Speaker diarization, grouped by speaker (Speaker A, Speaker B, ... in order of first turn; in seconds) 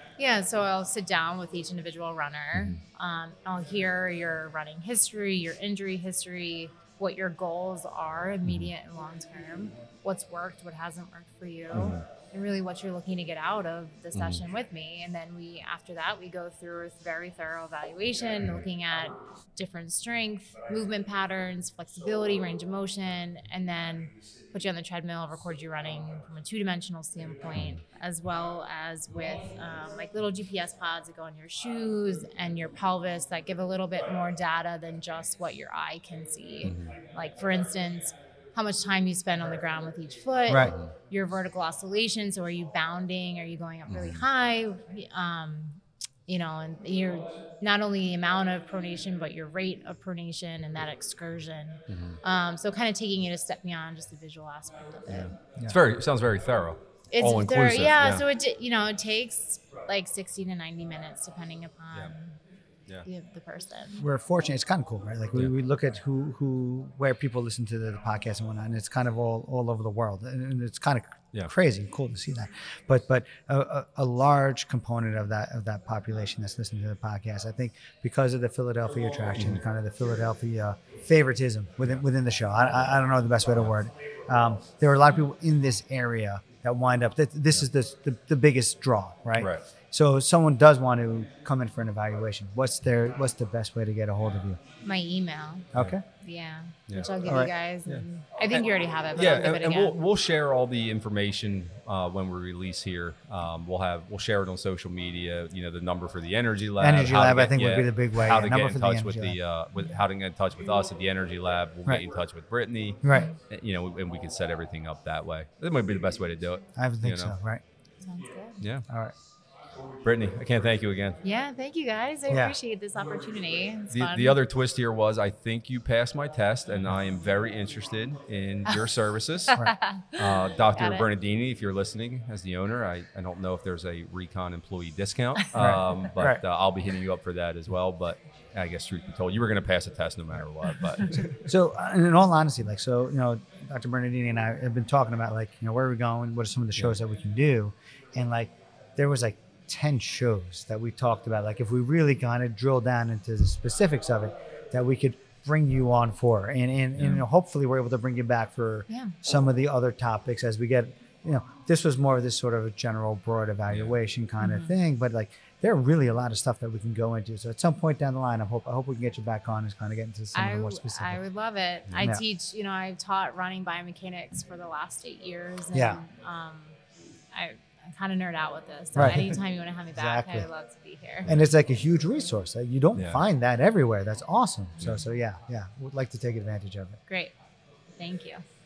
Speaker A: 0.2-55.4, 57.1-62.4, 63.0-64.0, 94.8-100.0, 113.1-113.3, 118.0-118.6, 121.2-124.4, 129.5-131.1, 164.4-164.7, 170.3-176.8, 177.3-181.3, 187.1-187.3, 188.0-188.4
Speaker B: 11.7-12.0, 14.1-14.4, 27.5-27.8, 36.6-37.0, 40.6-40.9, 43.9-44.2, 51.9-52.2, 55.1-58.2, 89.4-89.6, 97.8-98.6, 99.1-117.4, 118.6-118.8, 120.0-121.2, 123.9-129.6, 130.1-141.3, 163.7-163.9, 182.9-183.2
Speaker C: 40.5-40.8, 64.0-94.6, 95.7-96.0, 97.2-97.5, 106.8-109.4, 113.0-113.3, 116.8-117.6, 118.9-119.1, 122.3-122.5, 135.6-136.4, 141.3-171.2, 172.0-172.2, 175.7-176.0, 178.9-179.2, 179.9-180.5, 181.2-187.0